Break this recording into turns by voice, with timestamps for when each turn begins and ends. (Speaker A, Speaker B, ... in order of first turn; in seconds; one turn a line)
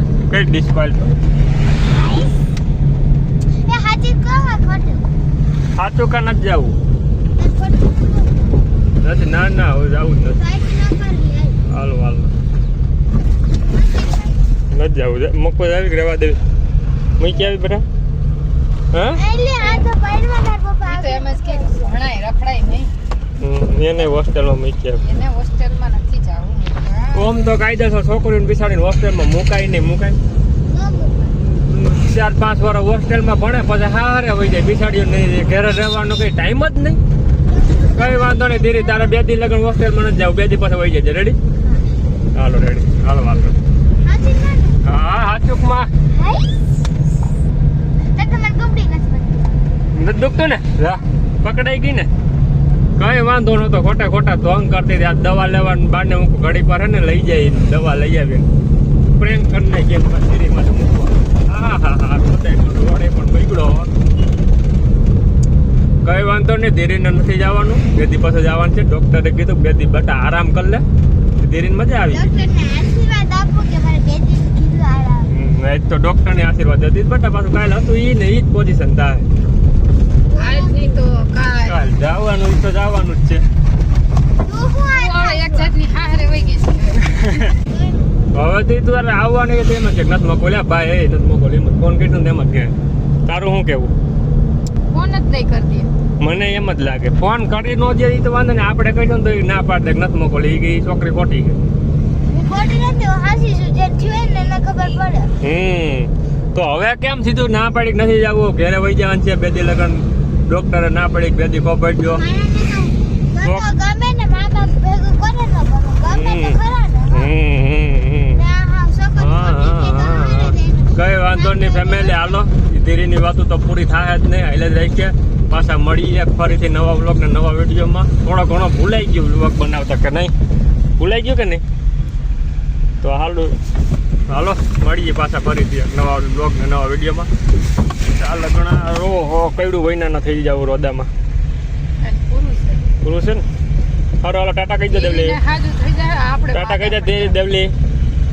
Speaker A: 0.3-1.1
Speaker B: 1.9-2.4
Speaker B: 3.6-5.1
Speaker A: 5.8-6.8
Speaker B: 7.3-8.7
Speaker A: 9.0-10.4
Speaker B: 10.4-11.6
Speaker A: 11.7-12.3
Speaker B: 13.6-14.5
Speaker A: 14.7-16.4
Speaker A: 17.2-17.9
Speaker A: 18.9-19.2
Speaker B: 19.2-21.9
Speaker C: 19.6-19.9
Speaker C: 20.8-22.9
Speaker A: 23.4-25.0
Speaker C: 25.0-27.6
Speaker A: 27.1-30.2
Speaker B: 30.7-31.4
Speaker A: 31.7-37.0
Speaker B: 37.5-38.4
Speaker A: 38.0-41.4
Speaker A: 42.3-43.6
Speaker B: 44.0-44.8
Speaker A: 44.9-45.9
Speaker B: 46.1-46.5
Speaker B: 48.1-49.6
Speaker A: 49.9-52.1
Speaker A: 53.0-58.5
Speaker A: 59.2-63.9
Speaker A: 66.0-70.8
Speaker A: 71.4-72.3
Speaker B: 72.1-75.3
Speaker A: 75.3-79.3
Speaker B: 80.3-81.0
Speaker C: 80.4-81.8
Speaker A: 81.6-83.4
Speaker B: 84.4-86.5
Speaker C: 84.9-87.5
Speaker B: 87.5-88.3
Speaker A: 88.3-92.7
Speaker A: 93.3-93.9
Speaker C: 94.9-95.9
Speaker A: 96.2-101.6
Speaker B: 102.3-105.3
Speaker A: 105.4-112.2
Speaker B: 112.2-117.3
Speaker A: 116.1-116.6
Speaker A: 117.1-118.4
Speaker B: 118.3-122.4
Speaker A: 119.2-130.3
Speaker A: 131.0-131.6
Speaker A: 133.0-133.6
Speaker A: 134.3-137.3
Speaker A: 138.1-141.1
Speaker C: 142.0-142.9
Speaker A: 143.0-143.5
Speaker A: 144.2-145.4
Speaker C: 144.9-147.4
Speaker A: 146.5-147.8